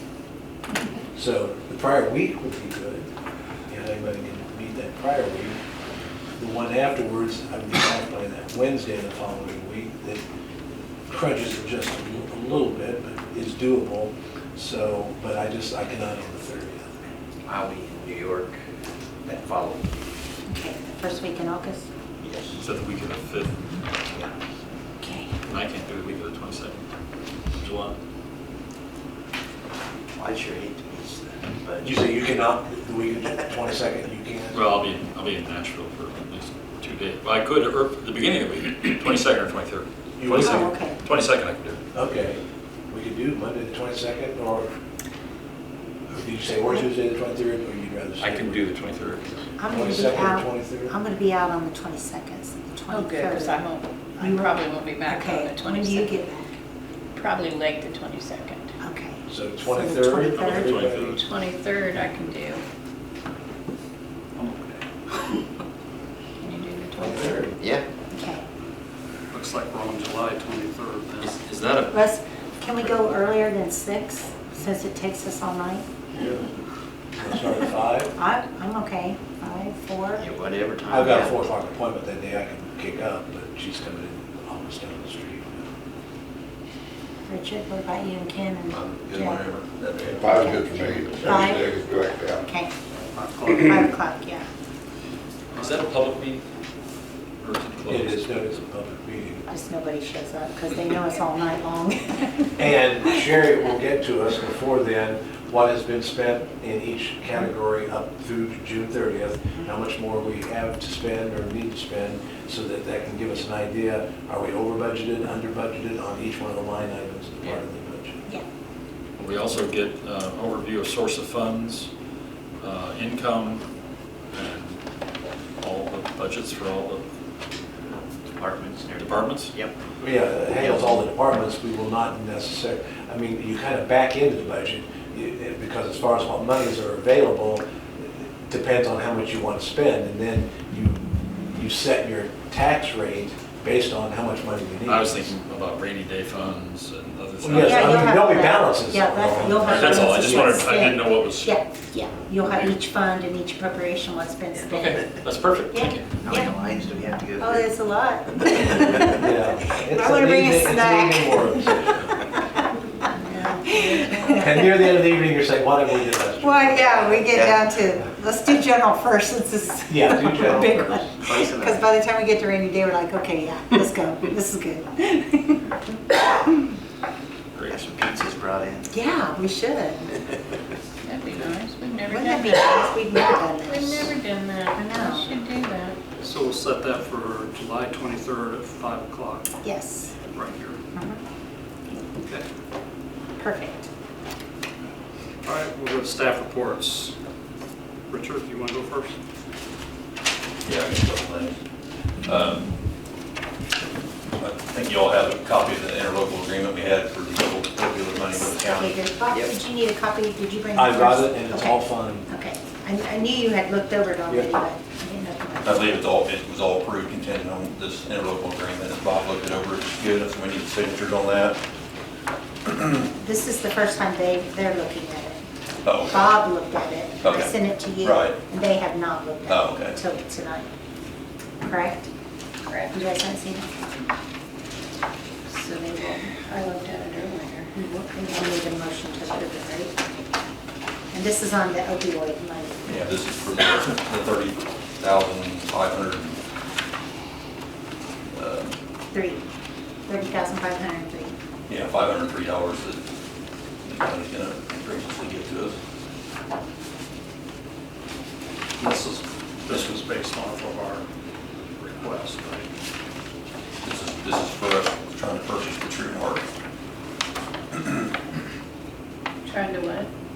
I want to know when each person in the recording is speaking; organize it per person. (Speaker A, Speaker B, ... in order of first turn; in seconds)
Speaker A: 1.1-3.1, 3.7-5.6, 6.4-10.2, 11.1-17.0, 31.8-34.6, 40.2-40.7, 41.9-44.7, 46.1-48.6, 49.7-50.9, 59.3-61.2, 67.0-67.5, 76.2-76.4, 77.2-78.1, 80.9-85.6, 97.9-99.5, 102.6-118.2, 130.0-137.6, 138.5-145.3, 147.4-150.9, 159.1-162.1, 164.0-167.3, 169.9-170.8, 210.8-212.3
Speaker B: 17.5-18.6, 19.2-19.9, 22.2-22.5, 30.2-31.9, 67.6-67.8, 80.2-81.3, 128.3-129.7, 156.1-157.7, 167.3-167.6, 170.5-171.9, 177.7-178.9
Speaker C: 20.5-21.9, 25.0-25.3, 40.3-41.0, 49.6-53.6, 54.2-56.5, 58.8-60.9, 68.1-68.4, 71.9-75.8, 78.2-80.2, 87.3-89.4, 90.3-91.7, 92.4-92.7, 93.4-94.5, 99.5-102.8, 147.5-155.1, 155.7-156.5, 157.4-162.4, 163.7-164.4, 166.4-176.0, 178.9-180.2, 182.1-184.1, 184.8-185.3, 189.6-190.2, 190.9-191.2, 193.4-193.9, 208.3-216.1, 223.1-225.4, 226.1-230.7, 231.6-232.1, 232.9-233.7, 237.8-240.0, 241.1-242.9, 249.1-249.4, 250.1-251.3
Speaker D: 22.6-23.6, 25.5-26.9, 27.6-27.9, 34.5-41.8, 48.2-49.4, 60.4-61.2, 71.3-72.0, 95.5-96.4, 97.4-98.5, 119.2-121.9, 122.6-123.6, 124.3-124.8, 125.6-127.0, 129.0-129.5, 144.8-148.2, 149.3-151.6, 152.4-152.7, 154.6-156.2, 177.5-178.1
Speaker E: 52.9-56.2, 57.1-58.7, 61.1-62.6, 66.4-67.5, 163.2-164.1, 181.0-183.0, 183.6-186.0, 232.7-233.0, 235.5-237.8, 269.4-270.1
Speaker F: 69.3-71.3, 186.2-189.5, 190.3-190.8, 195.4-197.2, 198.1-199.2, 258.8-261.1, 261.8-262.7
Speaker G: 88.7-90.3, 200.6-201.6, 202.2-202.7, 204.4-209.0, 215.6-221.6, 225.8-226.3, 227.2-228.4, 229.5-230.0, 242.8-246.4, 248.3-248.7, 251.7-253.0, 253.8-255.8, 263.8-266.5
Speaker H: 90.0-92.5